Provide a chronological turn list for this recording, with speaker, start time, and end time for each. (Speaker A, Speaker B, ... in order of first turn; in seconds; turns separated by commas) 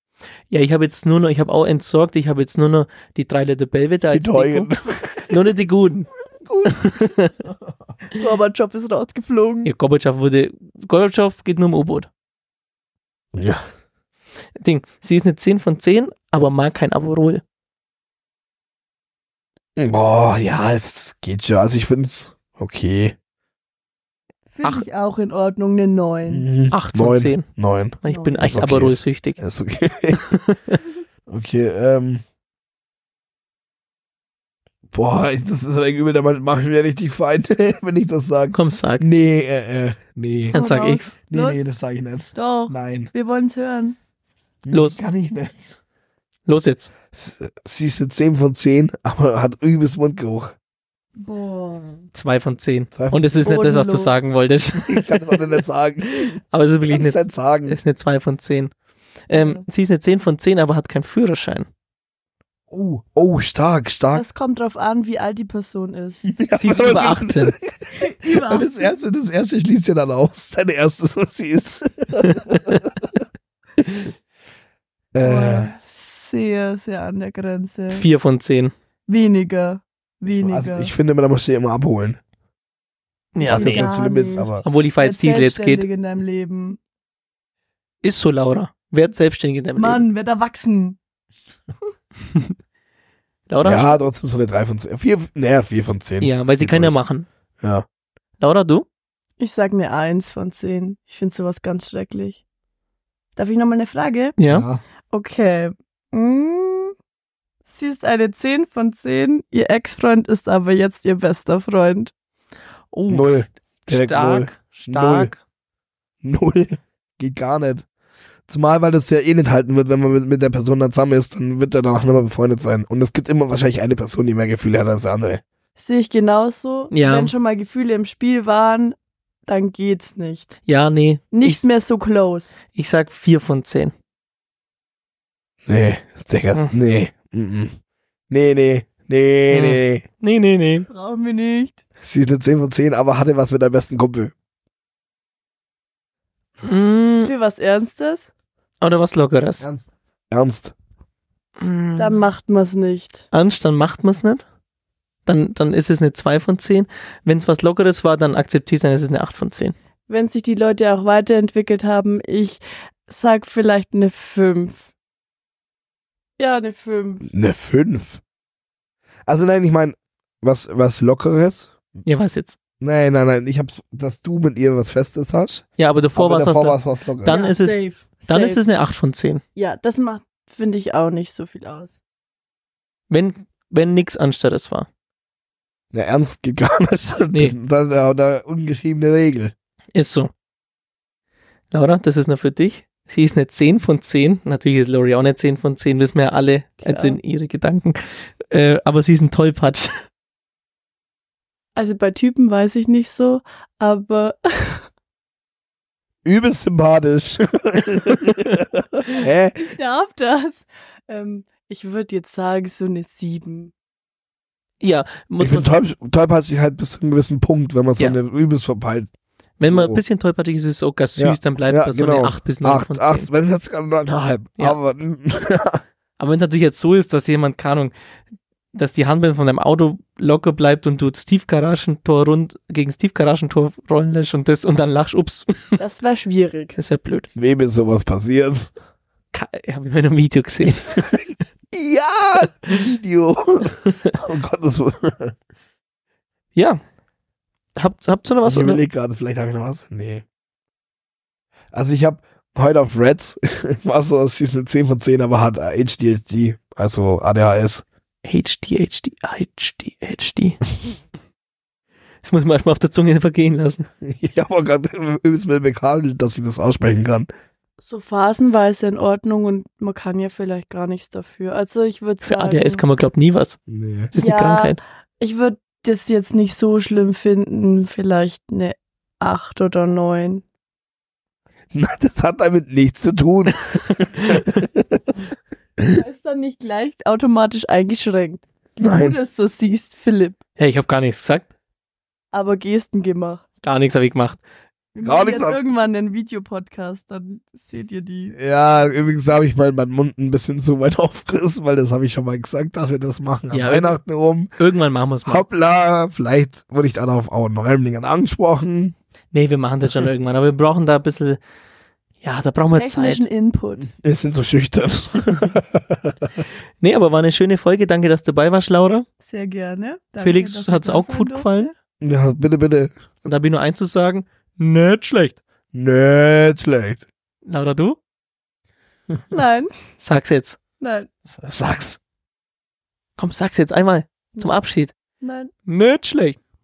Speaker A: 0.5-4.7, Speaker B: 4.1-5.3, Speaker A: 5.3-6.1, Speaker B: 6.5-6.8, Speaker A: 6.6-7.4, Speaker C: 8.1-9.7, Speaker A: 9.6-12.1, Speaker B: 13.3-13.6, Speaker A: 14.6-17.4, Speaker B: 19.8-23.1, Speaker C: 24.5-26.5, Speaker B: 26.3-30.3, Speaker A: 26.7-27.5, Speaker A: 28.0-29.4, Speaker C: 28.1-28.4, Speaker A: 30.1-30.8, Speaker B: 31.3-32.2, Speaker B: 34.9-40.6, Speaker A: 38.5-39.0, Speaker C: 40.5-41.7, Speaker A: 40.5-41.1, Speaker B: 41.3-43.1, Speaker C: 42.3-44.0, Speaker B: 44.6-45.8, Speaker A: 44.7-45.0, Speaker A: 46.5-46.9, Speaker B: 47.1-50.5, Speaker C: 51.2-52.1, Speaker A: 52.1-55.6, Speaker B: 52.9-53.4, Speaker C: 53.5-54.1, Speaker B: 54.8-57.8, Speaker A: 56.5-58.7, Speaker A: 59.3-61.7, Speaker C: 59.3-59.6, Speaker B: 62.7-64.2, Speaker C: 64.1-66.3, Speaker B: 66.2-73.2, Speaker A: 66.5-67.6, Speaker C: 68.0-68.8, Speaker A: 72.2-72.8, Speaker B: 73.8-74.1, Speaker B: 75.1-75.7, Speaker C: 75.2-78.0, Speaker A: 77.9-78.7, Speaker C: 79.1-80.9, Speaker B: 80.3-82.2, Speaker A: 83.3-83.9, Speaker B: 83.4-84.6, Speaker C: 83.5-86.8, Speaker A: 84.6-85.9, Speaker A: 88.0-90.0, Speaker C: 89.8-91.0, Speaker A: 93.5-94.0, Speaker B: 93.6-96.9, Speaker A: 96.2-97.3, Speaker A: 98.4-98.8, Speaker C: 99.4-102.4, Speaker C: 103.3-104.3, Speaker A: 104.4-104.7, Speaker B: 104.5-104.8, Speaker C: 105.1-106.9, Speaker C: 107.7-112.1, Speaker A: 112.9-115.4, Speaker B: 113.1-115.3, Speaker B: 116.2-117.8, Speaker B: 118.5-125.4, Speaker C: 125.8-130.6, Speaker A: 126.9-127.3, Speaker A: 130.7-131.6, Speaker C: 131.3-132.5, Speaker A: 132.7-133.9, Speaker B: 135.7-137.7, Speaker B: 138.3-140.0, Speaker A: 139.5-140.9, Speaker C: 140.9-141.8, Speaker B: 142.0-144.3, Speaker A: 146.6-147.3, Speaker C: 147.2-148.3, Speaker A: 148.8-149.7, Speaker B: 149.6-150.7, Speaker A: 151.6-152.2, Speaker C: 152.0-153.2, Speaker A: 153.3-154.4, Speaker A: 155.2-159.7, Speaker C: 160.1-164.8, Speaker C: 166.4-167.3, Speaker B: 167.2-168.2, Speaker B: 169.3-171.7, Speaker A: 172.0-172.6, Speaker B: 172.8-175.6, Speaker A: 175.8-179.4, Speaker B: 176.1-177.4, Speaker C: 177.2-178.6, Speaker C: 179.6-181.9, Speaker A: 183.1-184.9, Speaker B: 185.9-189.5, Speaker A: 189.9-190.3, Speaker A: 191.7-199.9, Speaker C: 196.8-197.2, Speaker C: 201.8-204.8, Speaker B: 206.2-209.7, Speaker C: 209.7-213.7, Speaker A: 214.8-215.8, Speaker B: 215.4-219.1, Speaker A: 219.6-223.3, Speaker B: 219.6-220.0, Speaker B: 221.2-225.8, Speaker A: 226.2-227.9, Speaker A: 228.7-235.8, Speaker C: 235.8-236.8, Speaker A: 236.8-237.3, Speaker B: 237.3-238.7, Speaker A: 239.3-241.2, Speaker B: 240.7-241.2, Speaker B: 241.7-245.3, Speaker A: 243.8-244.2, Speaker A: 246.5-246.8, Speaker A: 247.8-248.8, Speaker B: 248.4-250.2, Speaker B: 251.7-257.8, Speaker A: 258.2-260.6, Speaker A: 262.2-263.9, Speaker B: 264.0-267.3, Speaker C: 267.8-272.8, Speaker A: 272.2-273.6, Speaker B: 273.7-274.1, Speaker A: 274.1-274.8, Speaker C: 274.2-280.4, Speaker B: 281.7-285.1, Speaker A: 283.7-284.6, Speaker C: 285.9-290.4, Speaker B: 288.8-289.2, Speaker A: 290.6-291.5, Speaker C: 292.3-293.4, Speaker A: 293.6-294.4, Speaker C: 294.9-298.4, Speaker B: 295.0-295.6, Speaker B: 298.3-304.5, Speaker A: 303.5-304.0, Speaker A: 304.6-305.4, Speaker B: 305.2-308.9, Speaker A: 309.3-311.4, Speaker A: 312.2-313.2, Speaker C: 312.8-313.9, Speaker B: 313.8-316.4, Speaker A: 316.8-319.1, Speaker C: 319.2-321.7, Speaker A: 320.2-321.7, Speaker B: 322.0-323.3, Speaker A: 323.2-325.4, Speaker B: 325.7-327.0, Speaker A: 327.4-328.0, Speaker C: 329.3-329.7, Speaker A: 330.0-330.6, Speaker C: 330.8-331.1, Speaker B: 331.4-332.0, Speaker A: 333.2-334.9, Speaker C: 335.2-335.5, Speaker A: 335.6-336.4